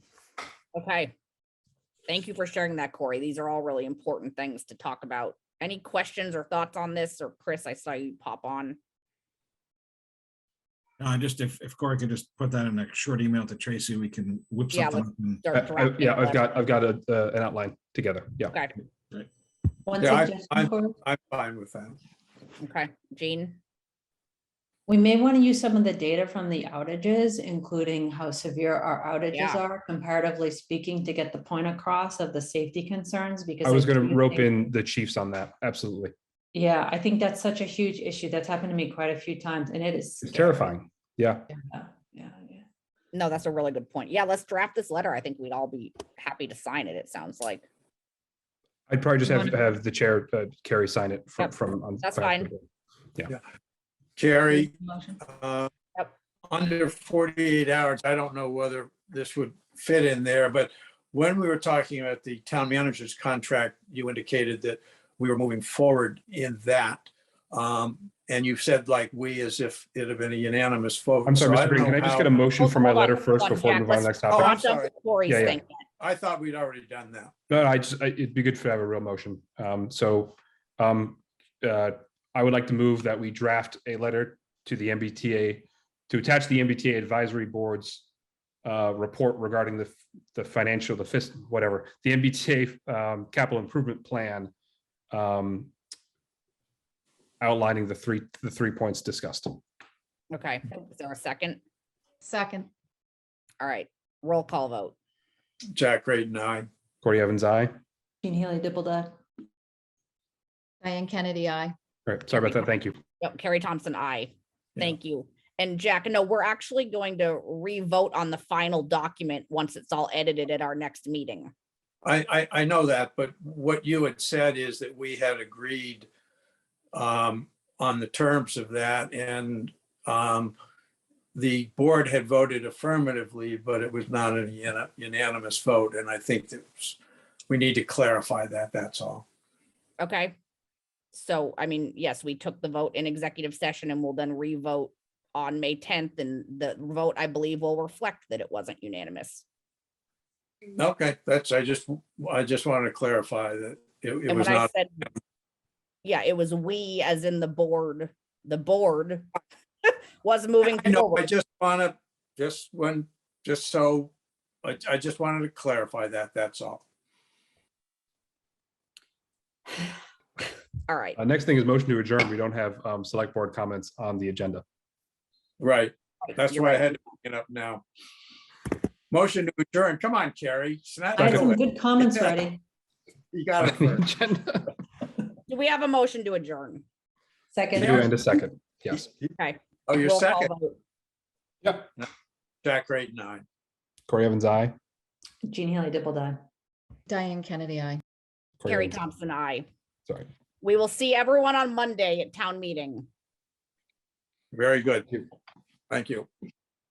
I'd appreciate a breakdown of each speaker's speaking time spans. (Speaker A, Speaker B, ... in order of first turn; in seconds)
Speaker A: 0.7-1.1, 2.1-8.8, 14.7-16.6, 22.6-23.6, 29.3-29.6, 43.1-47.6, 51.4-52.5, 72.5-75.7, 100.3-101.6, 103.6-104.9, 113.2-121.5, 140.0-140.3, 141.1-149.4, 154.3-155.1, 156.0-159.3, 159.8-161.3, 170.9-171.2, 176.3-176.9, 185.5-186.8, 189.4-190.8, 198.7-199.6, 200.6-203.1
Speaker B: 11.0-15.4
Speaker C: 15.5-18.6, 33.6-36.1, 40.2-41.5, 48.9-52.6, 71.2-74.6, 75.3-75.6, 77.5-88.0, 88.6-94.5, 95.1-95.7, 97.4-99.6, 107.0-107.7, 112.1-113.0, 171.2-174.6, 183.6-184.7, 187.7-189.0, 194.1-194.7, 198.6-199.0
Speaker D: 19.9-20.9, 24.9-34.6, 36.5-40.7, 41.7-42.6, 108.2-109.1, 181.2-182.6, 187.5-188.1, 195.4-196.4
Speaker E: 20.0-22.0, 54.1-55.7, 56.5-72.4, 74.3-74.9, 76.0-77.3, 105.7-106.7, 122.0-126.1, 126.9-130.5, 131.3-137.0, 137.5-139.2, 150.7-154.7, 160.6-164.1, 164.6-166.8, 175.6-177.8, 179.1-182.3, 183.3-184.1, 189.9-190.5, 192.6-193.4, 204.5-205.2, 205.9-206.3
Speaker F: 54.9-55.1, 102.2-102.7, 110.8-111.7, 197.1-198.0